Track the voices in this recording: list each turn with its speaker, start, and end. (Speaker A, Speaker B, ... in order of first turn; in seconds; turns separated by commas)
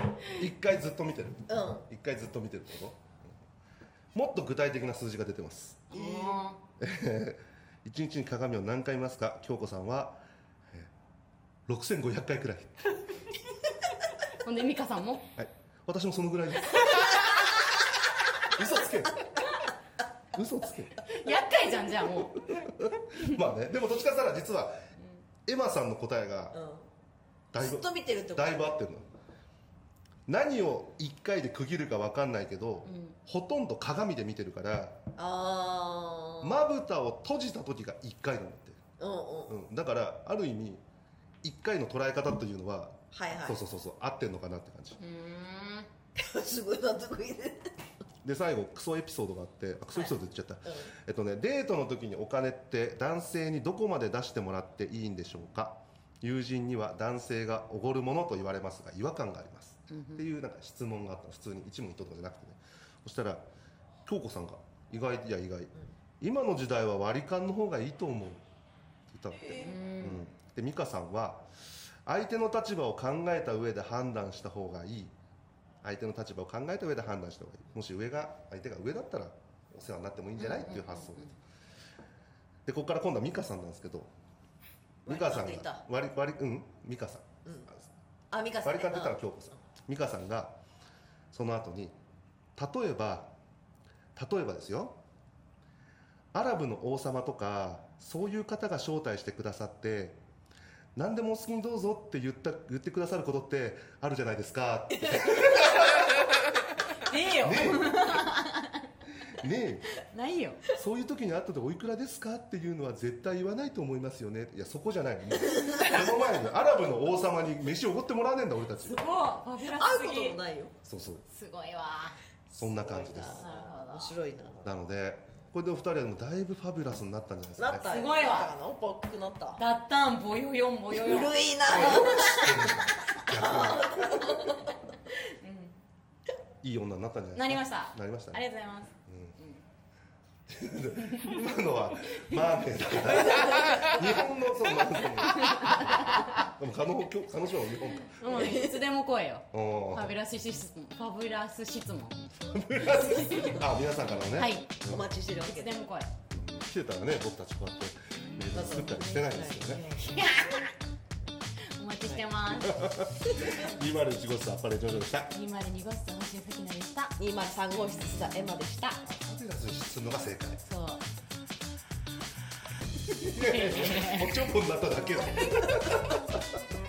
Speaker A: 0.4-3.2, Speaker B: 1.5-1.9, Speaker A: 4.1-5.8, Speaker B: 5.9-6.4, Speaker C: 5.9-6.6, Speaker A: 6.8-10.9, Speaker A: 11.7-12.7, Speaker C: 14.4-15.3, Speaker A: 15.4-17.3, Speaker A: 18.5-19.2, Speaker A: 20.3-21.0, Speaker C: 21.0-22.5, Speaker A: 22.1-24.8, Speaker A: 25.4-26.5, Speaker B: 26.5-26.9, Speaker A: 27.5-29.1, Speaker B: 27.6-28.8, Speaker A: 30.3-35.0, Speaker C: 32.8-33.1, Speaker B: 35.1-36.6, Speaker A: 36.4-38.8, Speaker B: 39.0-39.6, Speaker A: 39.5-40.8, Speaker A: 41.4-45.0, Speaker B: 43.1-43.6, Speaker C: 45.0-45.9, Speaker B: 46.1-47.7, Speaker A: 48.2-63.4, Speaker B: 49.9-50.9, Speaker C: 59.9-60.2, Speaker A: 64.0-68.4, Speaker A: 69.1-71.5, Speaker B: 69.4-69.8, Speaker C: 69.6-70.2, Speaker A: 72.0-75.1, Speaker A: 75.8-81.3, Speaker C: 80.4-81.3, Speaker A: 82.7-84.1, Speaker B: 85.0-85.8, Speaker A: 85.1-87.8, Speaker B: 87.4-87.7, Speaker B: 88.3-89.2, Speaker A: 88.6-90.5, Speaker A: 91.3-92.0, Speaker A: 92.5-93.3, Speaker A: 94.1-95.0, Speaker A: 96.3-100.2, Speaker A: 100.9-106.2, Speaker B: 105.0-105.5, Speaker C: 107.0-108.8, Speaker A: 107.4-108.3, Speaker A: 109.3-109.9, Speaker C: 110.1-110.6, Speaker A: 110.7-119.1, Speaker C: 118.8-120.4, Speaker B: 119.6-120.8, Speaker A: 120.8-121.2, Speaker C: 121.3-122.2, Speaker B: 122.5-124.7, Speaker A: 122.5-123.4, Speaker C: 123.2-124.2, Speaker A: 124.6-127.9, Speaker B: 127.6-129.6, Speaker C: 127.8-128.5, Speaker C: 129.6-132.5, Speaker B: 130.9-132.4, Speaker A: 131.6-134.3, Speaker B: 133.3-134.6, Speaker C: 135.2-135.8, Speaker A: 136.6-138.4, Speaker C: 137.3-139.6, Speaker A: 139.1-139.4, Speaker A: 140.5-148.4, Speaker B: 143.3-143.8, Speaker C: 145.4-146.3, Speaker C: 148.1-152.3, Speaker B: 148.2-148.8, Speaker A: 149.5-150.2, Speaker A: 152.5-155.1, Speaker C: 152.8-153.6, Speaker C: 154.3-154.8, Speaker B: 154.8-155.8, Speaker C: 155.4-156.1, Speaker A: 156.3-159.8, Speaker B: 158.5-160.3, Speaker C: 160.1-160.7, Speaker C: 161.7-162.9, Speaker A: 162.6-165.3, Speaker C: 165.3-167.2, Speaker B: 167.2-169.0, Speaker A: 169.1-170.6, Speaker C: 170.6-171.0, Speaker A: 173.2-176.4, Speaker C: 173.3-174.4